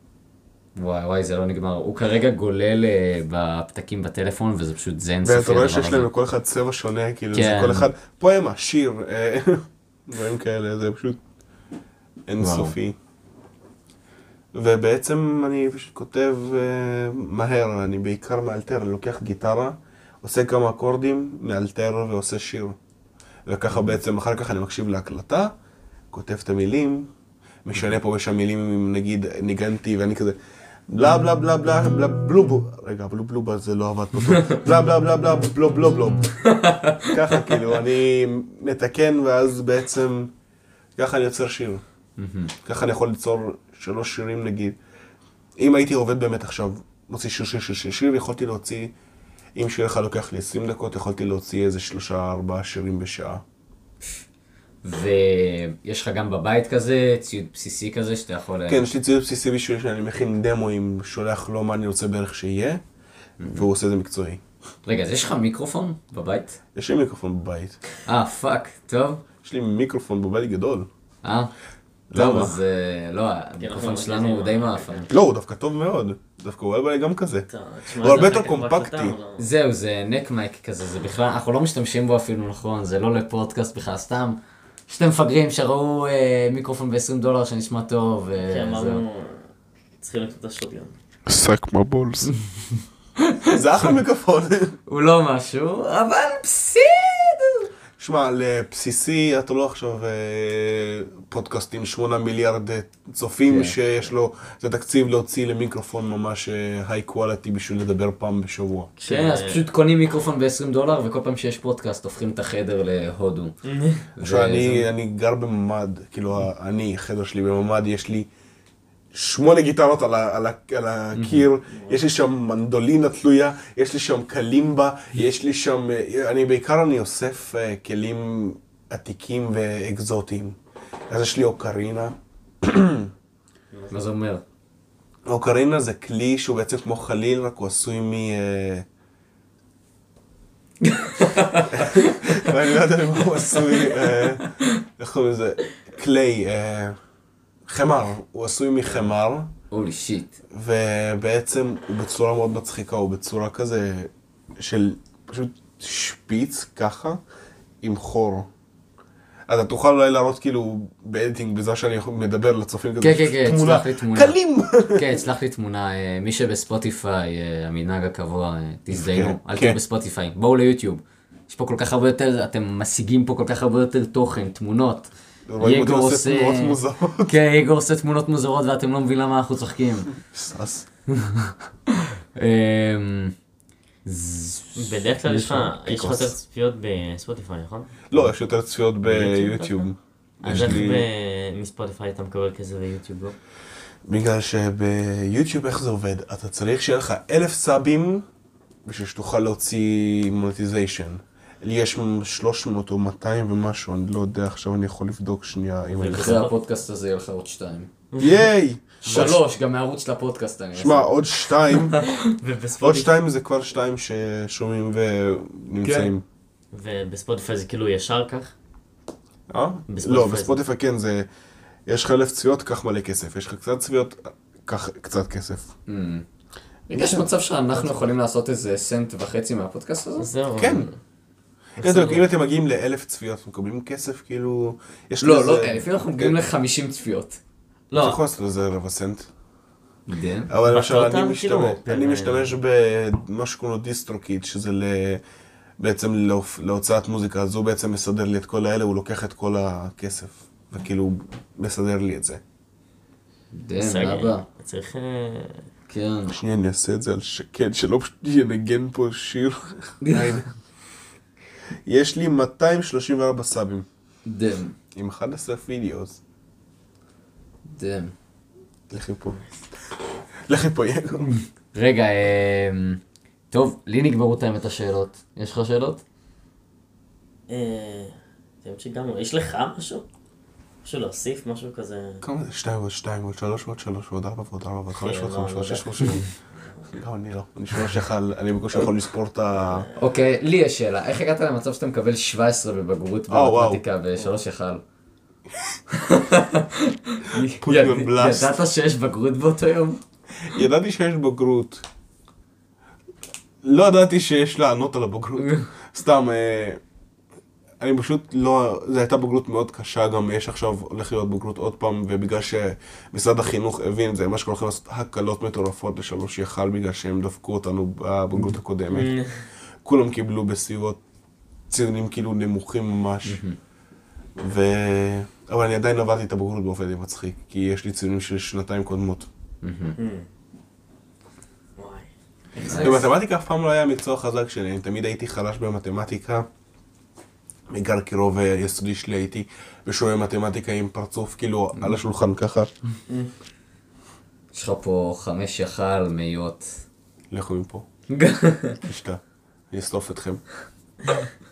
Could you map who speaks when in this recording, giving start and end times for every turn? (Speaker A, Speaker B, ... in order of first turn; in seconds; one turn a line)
Speaker A: 0.8-6.1
Speaker B: 5.2-11.2
Speaker A: 7.3-7.9
Speaker B: 12.3-13.0
Speaker A: 12.4-12.7
Speaker B: 14.6-22.8
Speaker B: 23.5-25.5
Speaker A: 23.7-24.0
Speaker B: 26.1-27.1
Speaker B: 27.6-30.4
Speaker B: 30.9-36.4
Speaker A: 34.3-34.6
Speaker A: 36.5-37.1
Speaker B: 37.0-40.3
Speaker B: 41.0-41.8
Speaker A: 42.2-42.5
Speaker B: 42.6-44.8
Speaker B: 45.6-48.9
Speaker B: 49.6-53.4
Speaker A: 54.8-58.9
Speaker B: 58.7-62.8
Speaker A: 63.4-63.7
Speaker B: 63.4-64.4
Speaker A: 64.8-66.6
Speaker B: 66.8-67.8
Speaker A: 68.0-69.2
Speaker B: 69.4-70.9
Speaker A: 71.2-71.5
Speaker B: 72.1-72.6
Speaker A: 72.1-75.1
Speaker C: 73.6-75.1
Speaker B: 75.1-79.2
Speaker C: 77.5-79.5
Speaker A: 79.4-89.0
Speaker C: 88.4-89.5
Speaker C: 90.0-90.9
Speaker B: 91.3-92.3
Speaker A: 93.3-93.5
Speaker B: 93.5-94.8
Speaker A: 94.9-97.7
Speaker B: 98.0-108.9
Speaker A: 103.5-103.8
Speaker C: 109.0-109.6
Speaker A: 109.0-113.5
Speaker C: 113.6-114.1
Speaker A: 114.2-114.8
Speaker B: 114.2-118.3
Speaker B: 119.1-130.6
Speaker A: 121.2-121.5
Speaker C: 121.7-122.0
Speaker B: 131.1-133.1
Speaker A: 133.9-134.4
Speaker B: 135.3-138.9
Speaker A: 140.8-142.1
Speaker B: 141.7-147.0
Speaker A: 143.5-144.5
Speaker B: 147.7-149.5
Speaker A: 149.7-150.4
Speaker B: 150.5-157.2
Speaker B: 157.8-158.5
Speaker B: 159.5-165.2
Speaker A: 163.0-164.4
Speaker A: 164.9-180.1
Speaker B: 168.9-169.8
Speaker B: 175.5-177.4
Speaker B: 180.3-180.9
Speaker A: 181.1-181.5
Speaker A: 182.3-183.3
Speaker A: 184.1-184.9
Speaker C: 184.8-188.2
Speaker B: 185.3-186.3
Speaker B: 188.1-191.1
Speaker C: 189.0-189.9
Speaker C: 190.4-193.4
Speaker B: 194.1-198.2
Speaker B: 198.8-206.5
Speaker C: 205.9-206.5
Speaker A: 206.1-207.9
Speaker C: 208.1-208.4
Speaker B: 208.2-209.4
Speaker A: 209.0-211.1
Speaker C: 209.1-209.4
Speaker B: 210.8-212.0
Speaker A: 211.7-212.0
Speaker C: 212.2-213.1
Speaker B: 212.8-216.2
Speaker A: 215.8-216.1
Speaker C: 216.7-218.5
Speaker B: 219.5-221.3
Speaker C: 219.9-220.6
Speaker B: 221.9-225.7
Speaker A: 225.9-226.3
Speaker B: 226.9-228.1
Speaker A: 226.9-230.3
Speaker C: 230.2-230.9
Speaker B: 230.6-230.9
Speaker B: 231.8-236.4
Speaker C: 231.8-232.2
Speaker A: 235.2-237.4
Speaker C: 237.9-238.2
Speaker B: 237.9-239.3
Speaker A: 240.1-240.5
Speaker B: 240.5-245.2
Speaker C: 240.7-242.5
Speaker B: 245.8-252.4
Speaker A: 253.5-254.4
Speaker C: 253.8-255.7
Speaker A: 255.9-256.4
Speaker B: 256.3-260.5
Speaker A: 260.0-260.4
Speaker B: 261.9-263.9
Speaker A: 264.2-264.8
Speaker B: 264.9-266.2
Speaker A: 267.7-268.1
Speaker B: 268.9-269.4
Speaker B: 270.5-271.4
Speaker A: 271.7-276.0
Speaker C: 277.5-280.1
Speaker C: 280.8-282.2
Speaker B: 282.2-286.3
Speaker C: 284.9-287.0
Speaker B: 286.9-289.9
Speaker C: 289.5-290.1
Speaker A: 290.0-294.8
Speaker B: 293.3-293.8
Speaker A: 295.9-300.0
Speaker B: 297.4-298.6
Speaker B: 300.4-301.9
Speaker B: 303.6-306.8
Speaker A: 305.4-305.7
Speaker B: 307.8-319.1
Speaker C: 318.9-319.5
Speaker B: 319.8-321.0
Speaker B: 321.7-323.4
Speaker A: 323.3-323.6
Speaker B: 324.4-329.3
Speaker A: 329.6-330.0
Speaker C: 330.0-330.3
Speaker C: 331.8-333.1
Speaker A: 332.7-333.0
Speaker B: 332.7-336.5
Speaker B: 337.7-342.7
Speaker A: 344.5-346.8
Speaker B: 347.3-347.9
Speaker A: 348.1-348.8
Speaker B: 348.8-349.2
Speaker B: 349.7-350.4